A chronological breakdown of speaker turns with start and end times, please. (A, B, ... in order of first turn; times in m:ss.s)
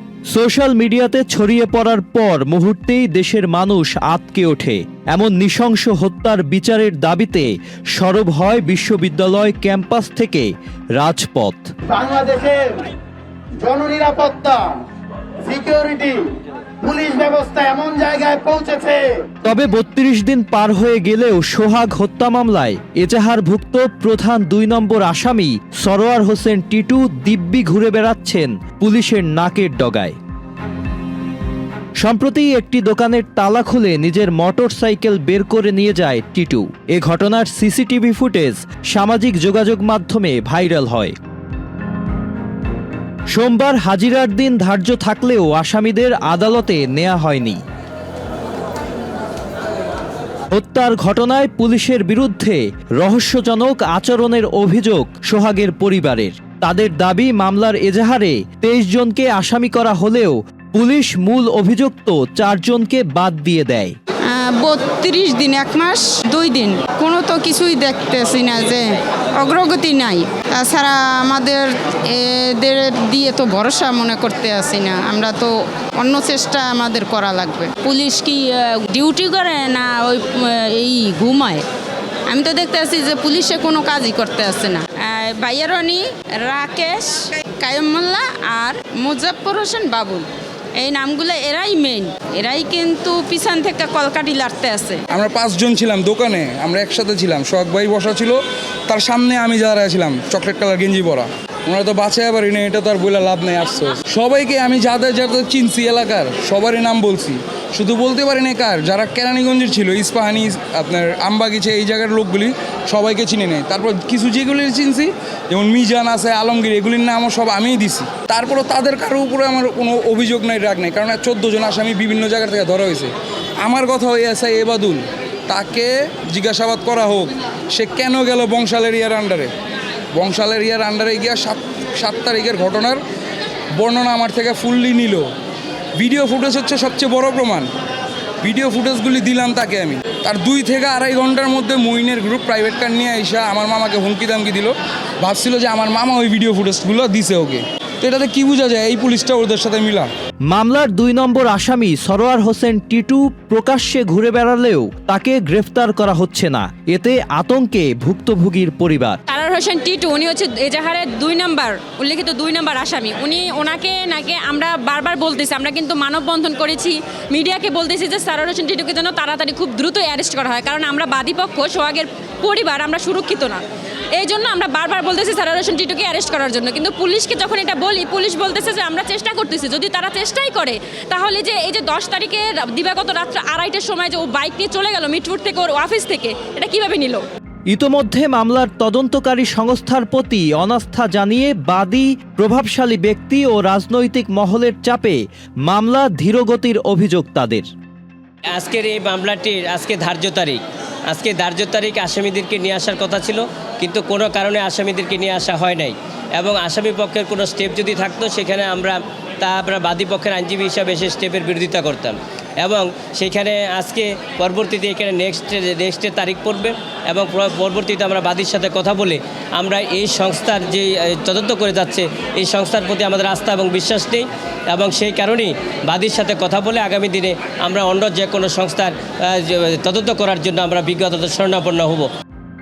0:00.3-0:11.7 A
0:11.9-0:12.8 B
0:13.6-0:14.8 B
0:15.4-0:16.3 B
0:16.8-0:19.2 B
0:19.4-0:30.2 A
0:32.0-0:41.2 A
0:43.3-0:47.6 A
0:50.5-1:04.0 A
1:04.3-1:21.6 C
1:22.3-1:35.0 C
1:35.1-2:03.1 D
2:03.6-2:09.5 D
2:10.2-2:13.0 D
2:13.8-2:15.3 D
2:16.0-2:17.7 D
2:18.4-2:30.1 D
2:30.5-2:39.2 A
2:39.3-2:53.6 E
2:54.2-3:07.2 E
3:07.7-3:17.7 A
3:18.5-3:52.1 F